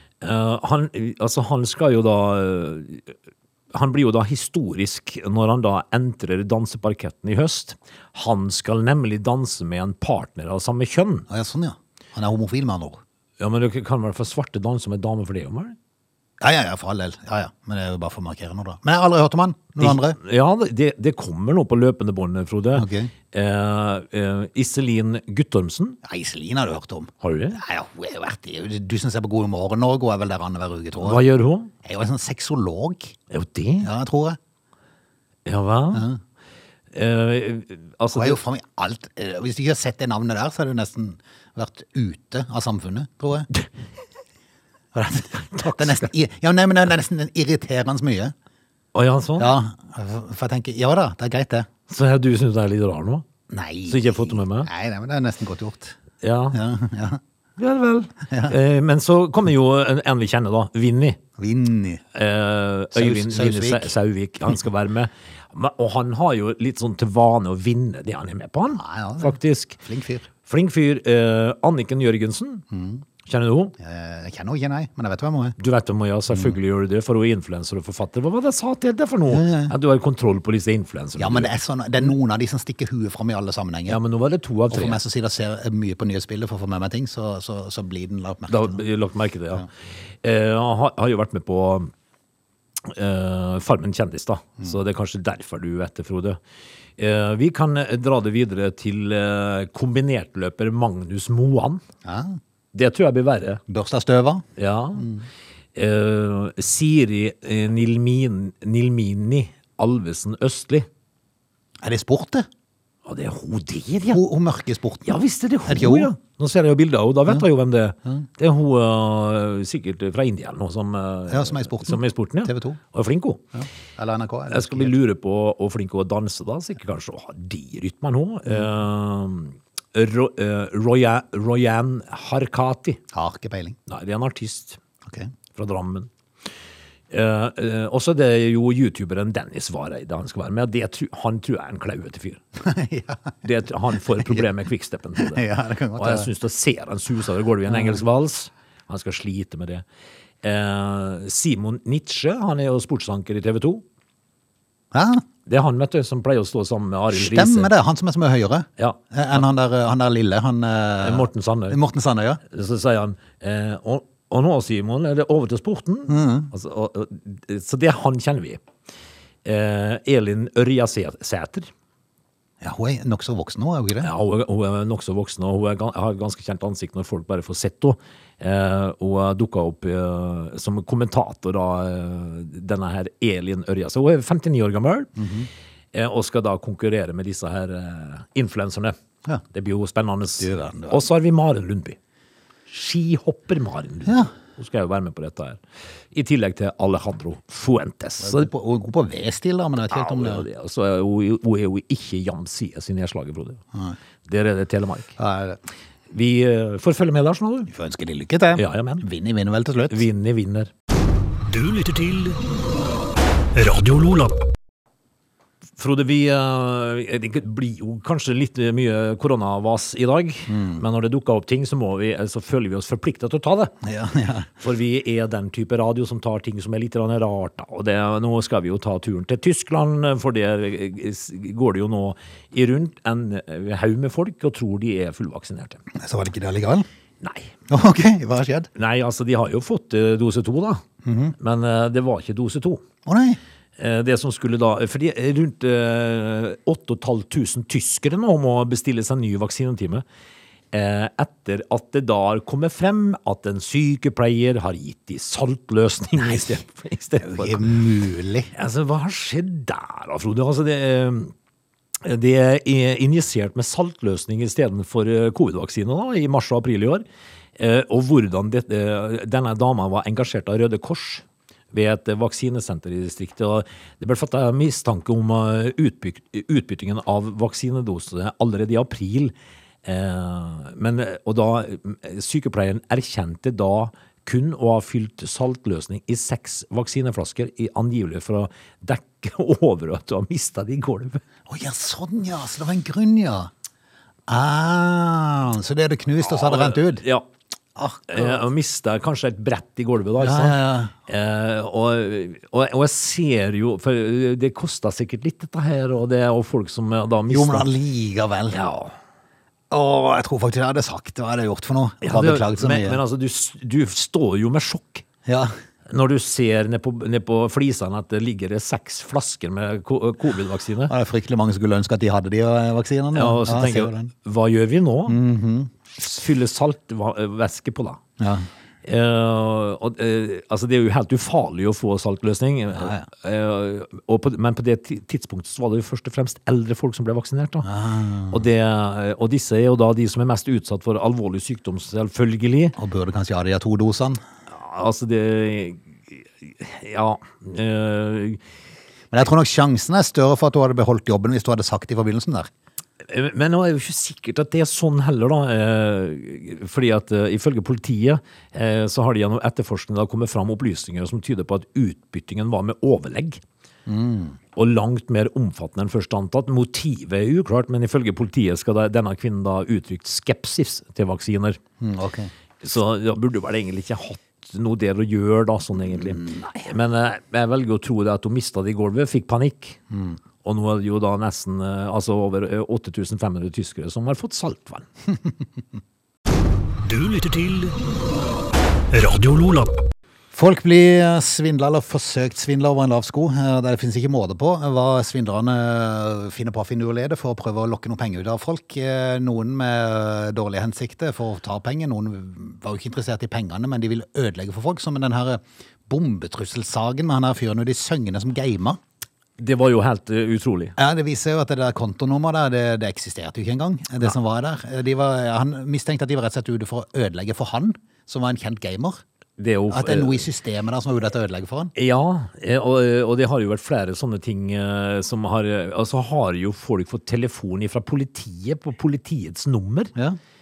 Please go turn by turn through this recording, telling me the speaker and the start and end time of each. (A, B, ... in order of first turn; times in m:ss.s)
0:00.2-0:03.1 A
0:03.7-0:11.2 A
0:11.3-0:13.0 B
0:13.4-0:15.8 A
0:16.4-0:20.2 B
0:19.8-0:26.0 A
0:22.7-0:23.1 B
0:26.0-0:31.2 B
0:27.2-0:27.6 A
0:31.0-0:31.7 A
0:31.8-0:33.2 B
0:33.3-0:33.9 A
0:33.8-0:34.4 B
0:35.4-0:36.1 A
0:35.9-0:36.2 B
0:36.9-0:38.4 A
0:38.1-0:43.5 B
0:44.9-0:48.3 B
0:45.6-0:46.0 A
0:48.9-0:49.6 A
0:49.4-0:51.7 B
0:51.9-0:53.2 A
0:53.5-0:56.0 B
0:53.9-0:54.7 A
0:56.2-0:56.6 A
0:56.5-0:57.2 B
0:57.6-1:01.2 A
0:58.3-0:58.5 B
1:01.4-1:02.0 B
1:02.1-1:09.8 A
1:02.9-1:03.9 B
1:08.7-1:10.3 B
1:10.4-1:12.6 A
1:12.7-1:13.0 B
1:13.2-1:13.7 A
1:13.8-1:15.6 B
1:15.6-1:21.5 A
1:19.3-1:19.7 B
1:21.2-1:24.0 B
1:23.9-1:25.0 A
1:24.7-1:28.8 B
1:28.5-1:29.7 A
1:30.2-1:31.9 A
1:32.8-1:36.4 A
1:37.0-1:41.8 A
1:42.0-1:42.4 B
1:42.7-1:43.6 A
1:43.7-1:44.4 B
1:44.6-1:45.1 A
1:45.0-1:45.2 B
1:45.7-1:50.9 A
1:51.8-1:52.5 B
1:53.0-1:54.2 A
1:54.1-1:56.1 B
1:55.0-2:03.5 A
2:01.3-2:02.8 B
2:03.5-2:04.9 B
2:04.5-2:13.0 A
2:13.1-2:13.8 B
2:13.9-2:14.8 A
2:15.1-2:15.3 B
2:15.5-2:16.1 A
2:17.1-2:22.4 A
2:22.6-2:23.3 B
2:23.4-2:25.4 A
2:23.9-2:24.4 B
2:25.2-2:26.3 B
2:25.9-2:29.8 A
2:27.7-2:28.0 B
2:30.4-2:33.8 A
2:34.9-2:35.2 B
2:35.4-2:37.7 A
2:37.1-2:42.4 B
2:38.8-2:39.4 A
2:41.0-2:41.8 A
2:42.4-2:48.6 A
2:46.1-2:46.5 B
2:49.4-2:51.7 A
2:52.6-2:54.1 B
2:54.0-3:05.2 A
3:05.2-3:05.5 B
3:05.9-3:09.0 A
3:09.5-3:12.0 A
3:10.4-3:11.0 B
3:12.7-3:18.5 A
3:18.2-3:20.4 B
3:19.9-3:23.6 A
3:24.3-3:25.2 A
3:25.2-3:25.6 B
3:26.1-3:27.7 A
3:27.7-3:30.0 B
3:28.5-3:29.0 A
3:29.9-3:30.7 A
3:31.5-3:32.4 C
3:33.5-3:34.4 C
3:35.8-3:43.7 A
3:40.5-3:40.8 B
3:43.8-3:44.5 B
3:44.6-3:55.8 A
3:55.9-3:56.8 B
3:57.2-3:57.5 A
3:57.7-3:58.7 B
3:58.7-4:00.8 A
4:01.0-4:01.3 B
4:01.4-4:02.8 A
4:03.0-4:03.4 B
4:03.8-4:10.0 A
4:10.7-4:17.7 A
4:16.2-4:16.6 B
4:17.2-4:18.5 B
4:18.5-4:21.3 A
4:22.0-4:27.0 A
4:27.6-4:39.3 A
4:39.8-4:51.2 A
4:51.5-4:53.5 B
4:54.3-4:57.0 B
4:56.2-4:57.3 A
4:57.8-4:58.4 B
4:58.1-5:07.7 A
5:00.2-5:00.9 B
5:07.3-5:08.6 B
5:08.5-5:08.9 A
5:09.7-5:13.0 B
5:12.0-5:15.0 A
5:15.2-5:15.5 B
5:15.9-5:20.9 A
5:20.9-5:24.1 B
5:23.1-5:25.2 A
5:25.1-5:25.7 B
5:26.0-5:28.0 A
5:28.2-5:28.5 B
5:28.8-5:37.7 A
5:32.7-5:33.1 B
5:37.6-5:38.4 B
5:38.3-5:42.8 A
5:42.8-5:44.2 B
5:44.5-5:48.4 A
5:49.1-5:52.5 B
5:53.0-6:03.4 A
6:03.9-6:04.4 B
6:04.5-6:11.6 A
6:11.8-6:12.3 B
6:12.6-6:19.8 A
6:16.2-6:16.6 B
6:19.9-6:20.2 B
6:20.4-6:24.9 A
6:26.8-6:27.8 C
6:28.9-6:29.8 C
6:30.3-6:48.8 B
6:49.4-6:50.8 A
6:50.8-6:59.0 B
6:59.4-7:00.2 A
6:59.7-7:01.7 B
7:01.7-7:09.9 A